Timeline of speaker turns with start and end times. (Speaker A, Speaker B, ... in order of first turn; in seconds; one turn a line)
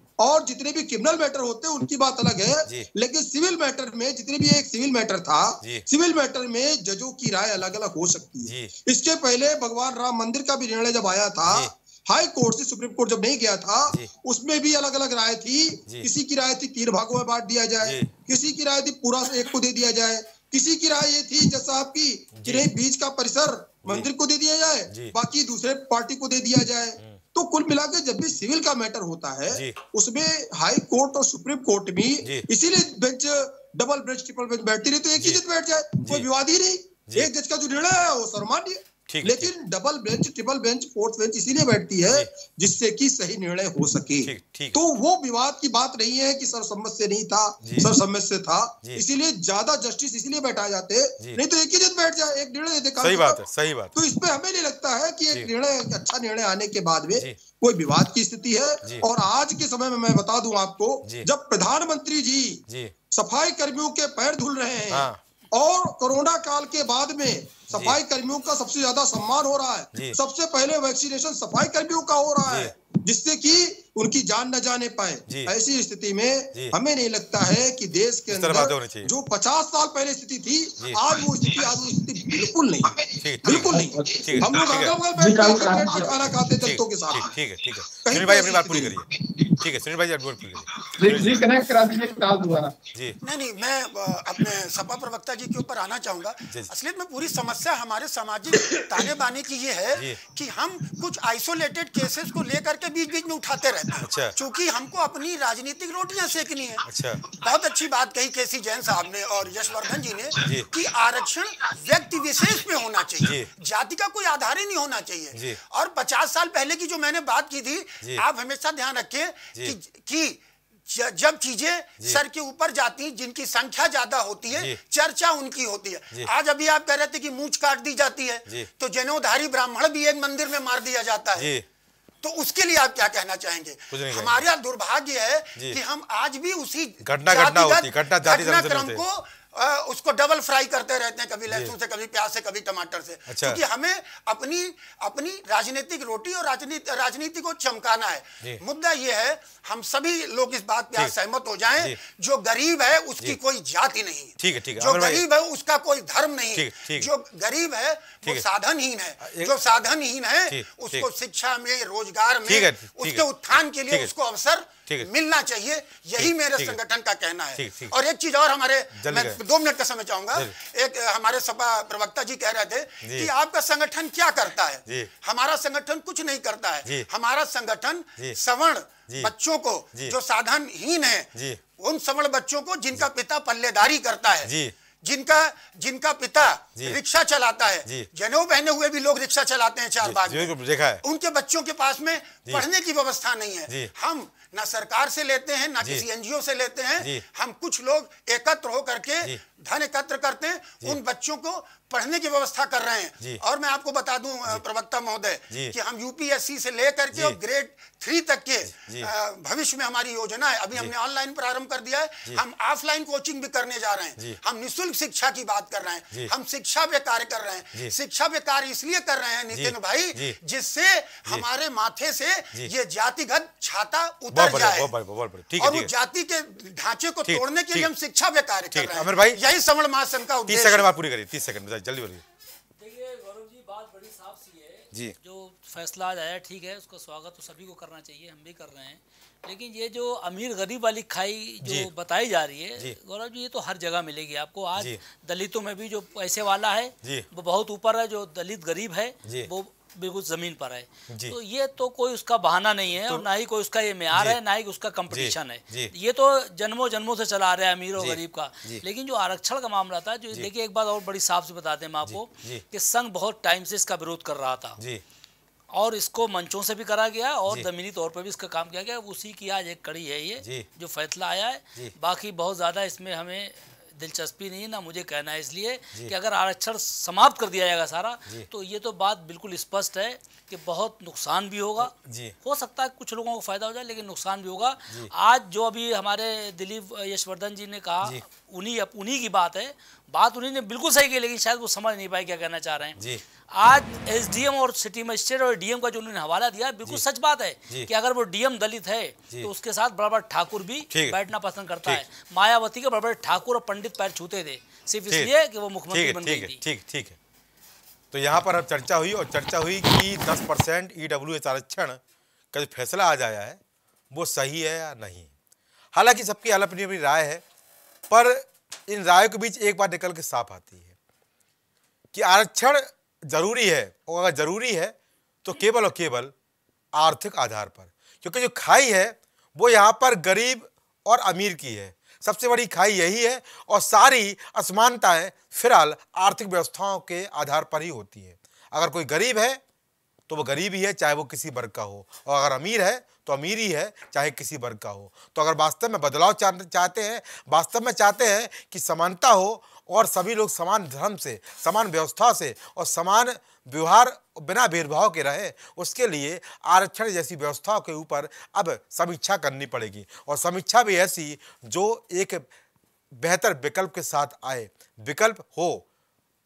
Speaker A: 0.2-53.4
Speaker B: 8.4-8.7
Speaker B: 17.8-18.1
Speaker B: 22.4-22.7
Speaker B: 29.5-29.8
Speaker B: 36.0-36.3
Speaker B: 39.1-39.5
Speaker B: 44.2-44.8
Speaker B: 47.6-47.9
Speaker B: 53.0-54.0
Speaker A: 54.0-87.3
Speaker B: 62.7-62.9
Speaker B: 64.9-65.2
Speaker B: 72.5-72.7
Speaker B: 78.3-79.1
Speaker C: 81.4-84.6
Speaker B: 83.2-85.0
Speaker C: 85.2-86.4
Speaker B: 86.6-89.1
Speaker A: 88.0-89.0
Speaker C: 89.2-89.6
Speaker B: 89.6-91.5
Speaker C: 90.8-92.7
Speaker D: 93.2-131.5
Speaker B: 100.0-100.2
Speaker B: 104.0-104.3
Speaker B: 106.8-107.2
Speaker B: 110.4-110.7
Speaker B: 113.2-113.5
Speaker B: 124.5-124.8
Speaker B: 131.4-131.7
Speaker D: 132.2-224.9
Speaker B: 133.9-134.5
Speaker B: 137.0-139.0
Speaker B: 143.3-143.6
Speaker B: 154.4-155.2
Speaker B: 156.6-157.1
Speaker B: 159.2-159.6
Speaker B: 160.5-161.1
Speaker B: 162.5-163.2
Speaker B: 166.2-166.8
Speaker B: 167.6-167.9
Speaker B: 169.0-169.4
Speaker B: 173.0-173.3
Speaker B: 181.3-181.6
Speaker B: 184.4-184.7
Speaker B: 190.0-191.0
Speaker B: 205.5-205.8
Speaker B: 208.7-209.1
Speaker B: 219.5-220.4
Speaker B: 224.3-225.9
Speaker D: 225.6-230.9
Speaker B: 227.3-227.9
Speaker B: 228.7-229.4
Speaker B: 230.5-232.2
Speaker E: 232.8-264.8
Speaker B: 241.6-241.9
Speaker B: 249.2-249.5
Speaker B: 251.1-251.3
Speaker B: 255.1-255.9
Speaker B: 258.0-258.8
Speaker B: 262.1-262.6
Speaker B: 264.8-265.0
Speaker E: 265.7-293.0
Speaker B: 270.4-270.7
Speaker B: 281.9-282.4
Speaker E: 293.5-306.6
Speaker B: 300.9-301.2
Speaker B: 305.9-307.2
Speaker B: 308.1-312.0
Speaker B: 312.5-313.6
Speaker B: 314.1-315.3
Speaker B: 315.9-317.4
Speaker B: 318.1-320.9
Speaker B: 322.1-326.3
Speaker B: 326.9-339.6
Speaker B: 340.3-362.5
Speaker B: 363.1-365.9